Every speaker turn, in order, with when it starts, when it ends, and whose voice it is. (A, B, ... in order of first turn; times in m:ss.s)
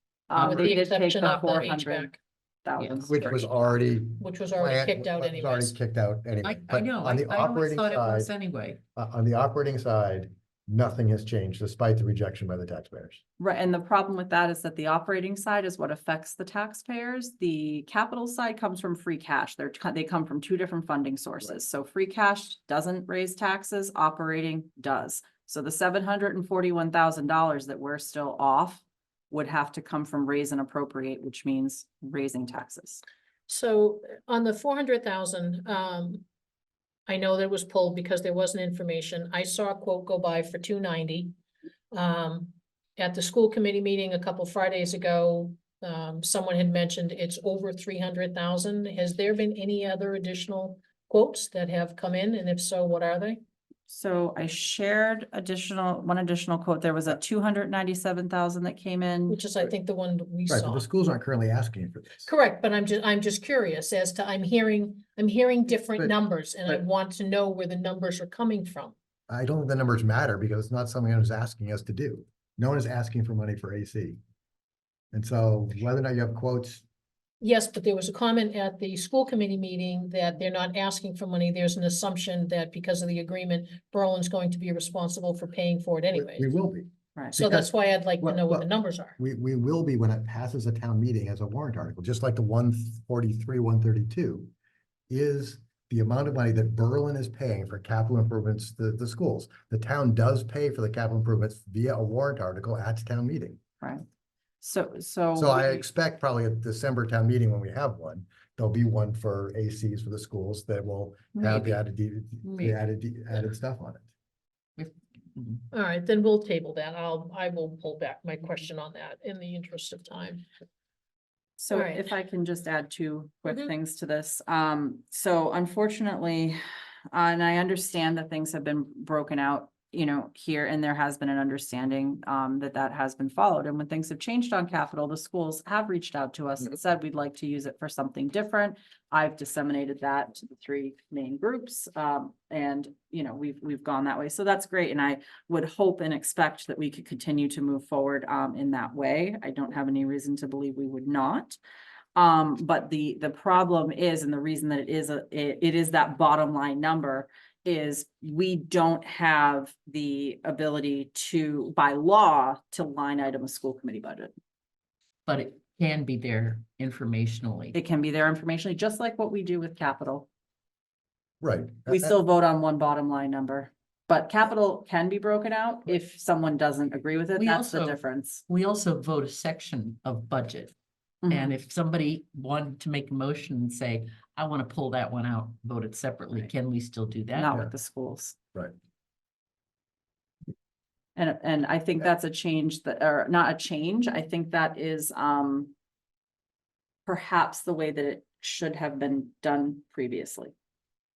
0:00.3-0:03.1 A
0:00.4-0:00.8 B
0:00.4-0:02.2 C
0:02.8-0:03.2 B
0:03.1-0:08.3 D
0:03.1-0:03.6 C
0:04.2-0:05.8 C
0:06.4-0:08.8 B
0:09.0-0:13.2 D
0:13.4-0:33.0 A
0:33.5-0:36.2 C
0:37.1-0:41.4 C
0:41.9-0:53.4 C
0:53.9-0:59.4 A
0:59.3-1:00.9 C
1:00.5-1:02.3 D
1:02.3-1:09.0 C
1:09.3-1:14.2 D
1:15.1-1:16.8 D
1:17.4-1:26.5 C
1:26.2-1:34.5 D
1:27.3-1:29.2 C
1:35.1-1:43.6 D
1:44.6-1:45.8 A
1:45.4-1:54.1 D
1:51.4-1:51.8 B
1:52.4-1:52.8 B
1:54.8-1:55.6 B
1:55.7-2:00.4 C
2:01.6-2:06.6 A
2:01.7-2:02.0 C
2:07.1-2:31.6 A
2:32.2-2:44.3 A
2:45.3-2:47.8 B
2:47.7-2:50.3 A
2:51.4-2:52.2 D
2:51.9-2:58.4 A
2:57.4-3:00.7 B
3:01.2-3:01.6 A
3:01.3-3:07.5 B
3:07.3-3:08.4 A
3:11.2-3:15.7 A
3:17.1-3:20.5 A